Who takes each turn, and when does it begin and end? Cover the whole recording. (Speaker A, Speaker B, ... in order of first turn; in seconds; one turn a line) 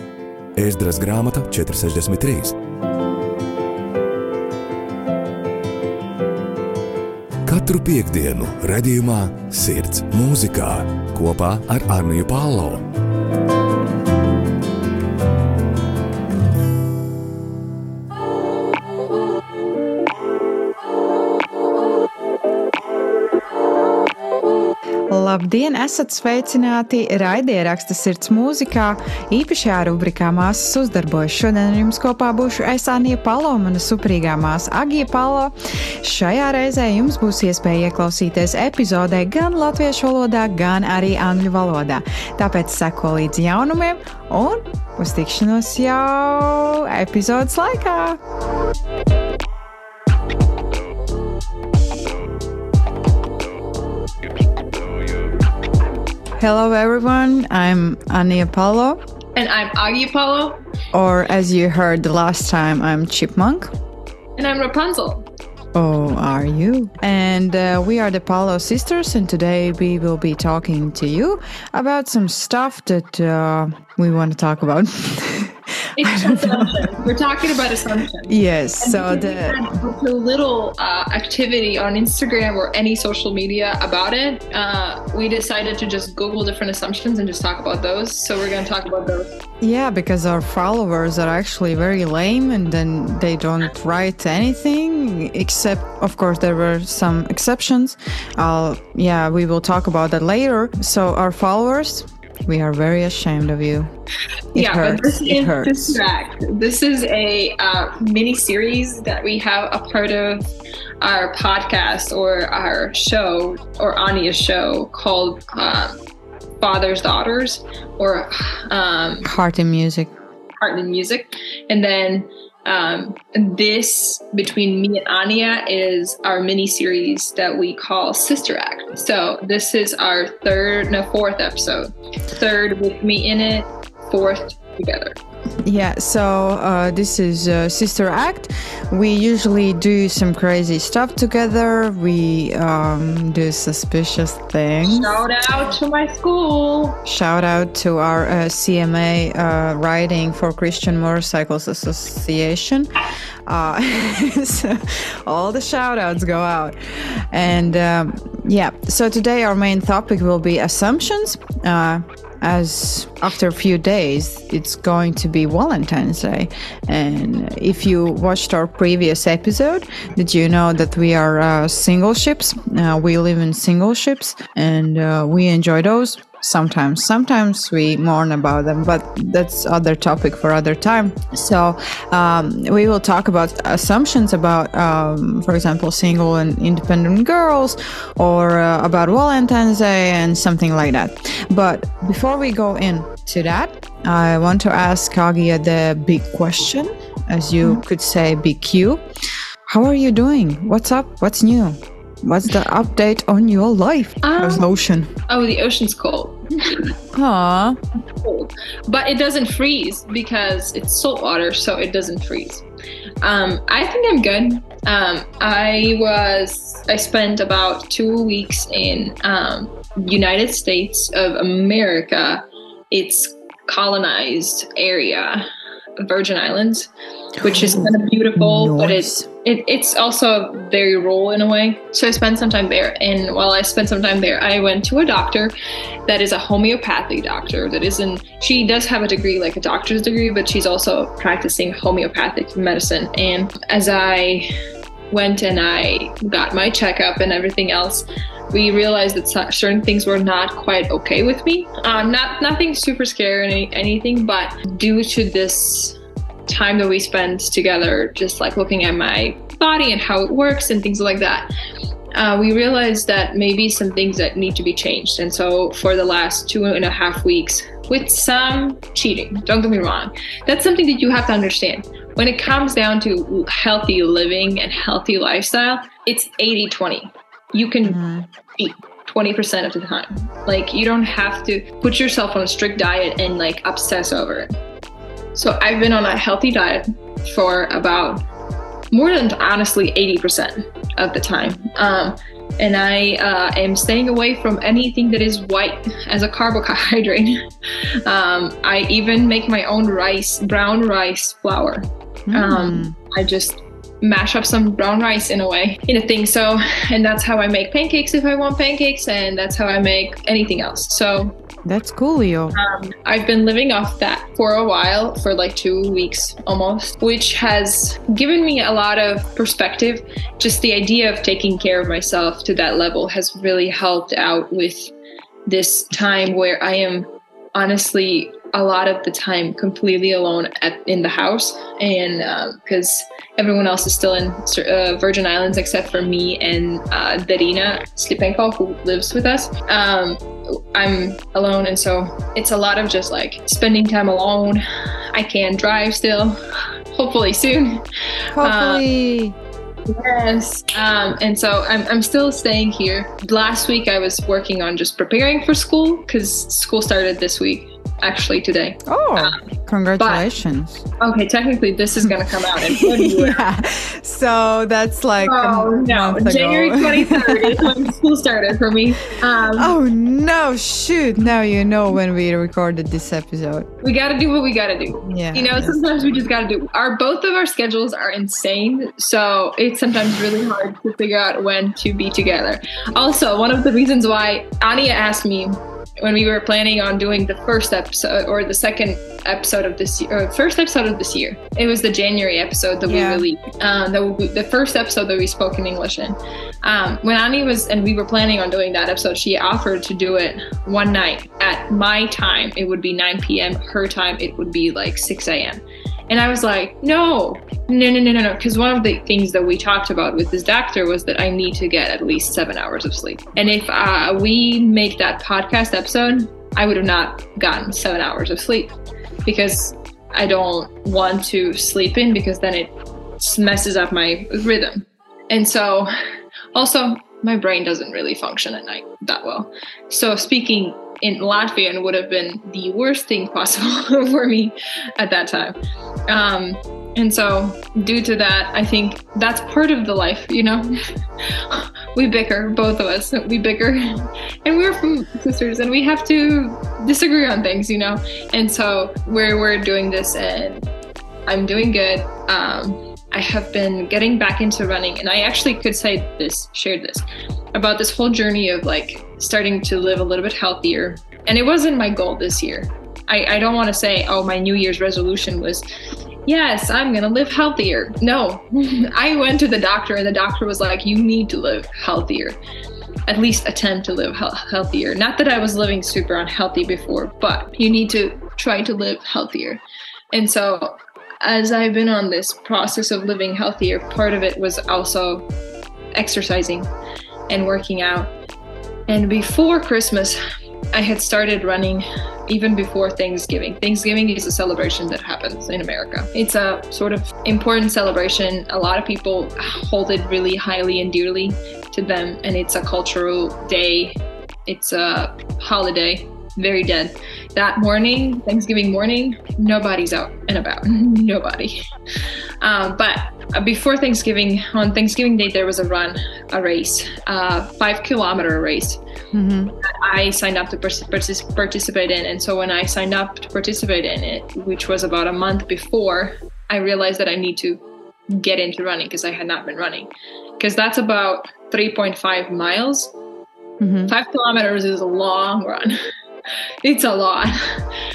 Speaker A: 0.6-2.5
Speaker A: 7.5-12.8
Speaker B: 25.1-48.2
Speaker B: 56.4-59.0
Speaker C: 59.4-60.6
Speaker B: 60.9-63.7
Speaker C: 64.4-65.2
Speaker B: 65.7-77.0
Speaker C: 76.0-89.3
Speaker B: 78.3-79.6
Speaker B: 89.6-103.9
Speaker B: 104.5-106.0
Speaker C: 104.5-110.5
Speaker C: 111.0-116.0
Speaker C: 116.6-119.3
Speaker B: 119.2-120.1
Speaker C: 120.6-135.2
Speaker B: 135.6-145.2
Speaker C: 144.8-147.0
Speaker B: 147.1-152.9
Speaker B: 153.4-199.0
Speaker B: 199.7-205.1
Speaker C: 204.2-204.7
Speaker C: 205.3-206.9
Speaker B: 207.1-207.8
Speaker C: 208.2-212.6
Speaker C: 213.2-225.4
Speaker C: 226.0-226.9
Speaker C: 227.4-235.5
Speaker B: 227.4-229.3
Speaker C: 236.1-244.5
Speaker C: 245.1-261.5
Speaker C: 262.1-278.0
Speaker B: 277.8-278.2
Speaker C: 278.6-284.5
Speaker C: 285.4-288.2
Speaker C: 288.9-297.4
Speaker C: 298.0-311.3
Speaker B: 302.3-302.9
Speaker B: 311.6-312.6
Speaker C: 312.5-324.9
Speaker C: 325.4-340.2
Speaker C: 340.7-346.4
Speaker C: 346.9-347.8
Speaker B: 348.3-349.4
Speaker C: 348.4-348.8
Speaker C: 349.9-359.4
Speaker B: 358.9-360.8
Speaker C: 361.0-363.4
Speaker B: 362.0-367.7
Speaker C: 365.2-369.7
Speaker B: 369.6-373.7
Speaker C: 373.8-418.7
Speaker B: 375.1-376.0
Speaker B: 392.9-393.2
Speaker C: 419.2-425.9
Speaker C: 426.5-435.6
Speaker C: 436.1-440.7
Speaker C: 441.5-450.7
Speaker C: 451.2-465.6
Speaker C: 466.2-472.4
Speaker C: 473.1-485.2
Speaker C: 485.9-486.7
Speaker C: 487.3-488.1
Speaker C: 488.9-490.2
Speaker C: 490.7-511.6
Speaker C: 512.4-518.8
Speaker B: 519.1-519.5
Speaker C: 519.6-527.6
Speaker C: 528.1-532.9
Speaker B: 533.6-533.9
Speaker C: 533.9-535.8
Speaker C: 536.6-537.5